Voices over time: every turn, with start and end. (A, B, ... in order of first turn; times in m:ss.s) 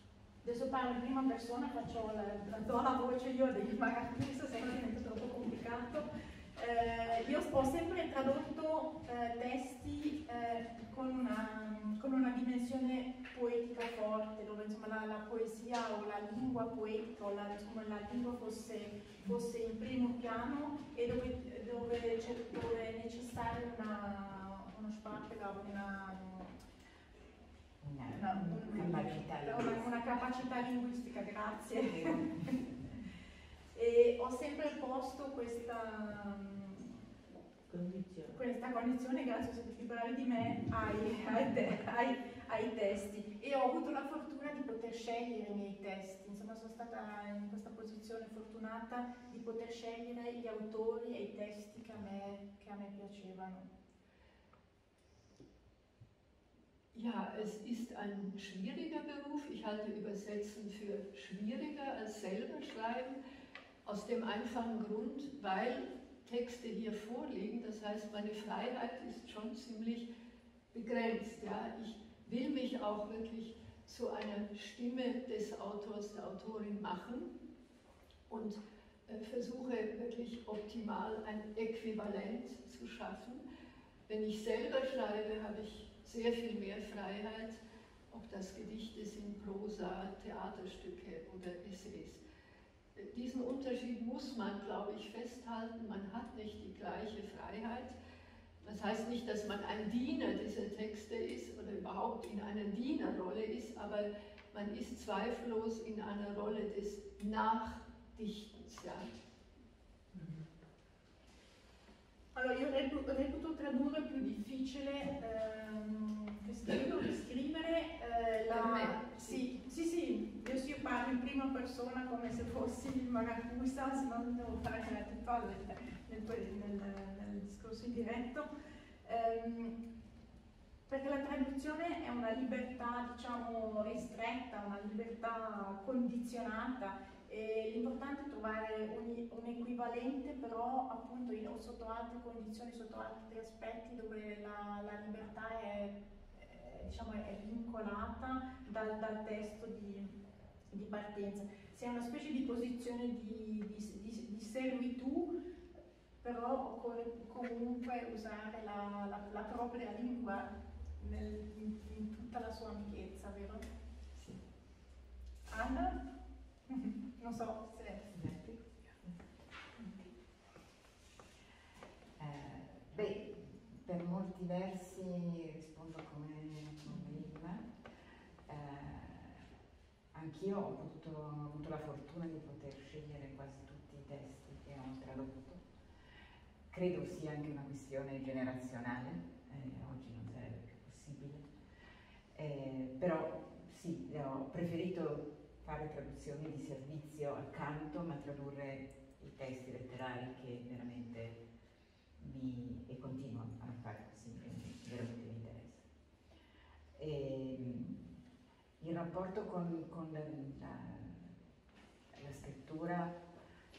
0:00.4-0:26.6 A
0:27.8-0:29.9 B
0:28.1-0:32.6 A
0:31.9-0:32.5 B
0:33.7-0:37.1 A
0:38.2-0:53.7 A
0:56.9-1:03.2 C
1:03.8-1:10.1 C
1:10.7-1:17.3 C
1:18.3-1:23.4 C
1:24.1-1:32.2 C
1:33.0-1:38.0 C
1:38.6-1:49.2 C
1:52.3-2:08.5 A
1:58.5-1:59.5 C
2:09.0-2:09.8 A
2:10.9-2:30.1 A
2:30.7-2:35.3 A
2:36.2-2:43.7 A
2:45.5-2:46.0 A
2:46.7-2:48.1 A
2:48.1-2:49.1 B
2:52.2-2:57.7 B
2:58.4-2:59.4 B
3:00.1-3:05.6 B
3:06.7-3:11.5 B
3:12.3-3:21.4 B
3:22.2-3:25.8 B
3:27.0-3:28.2 B
3:28.8-3:31.3 B
3:32.1-3:33.2 B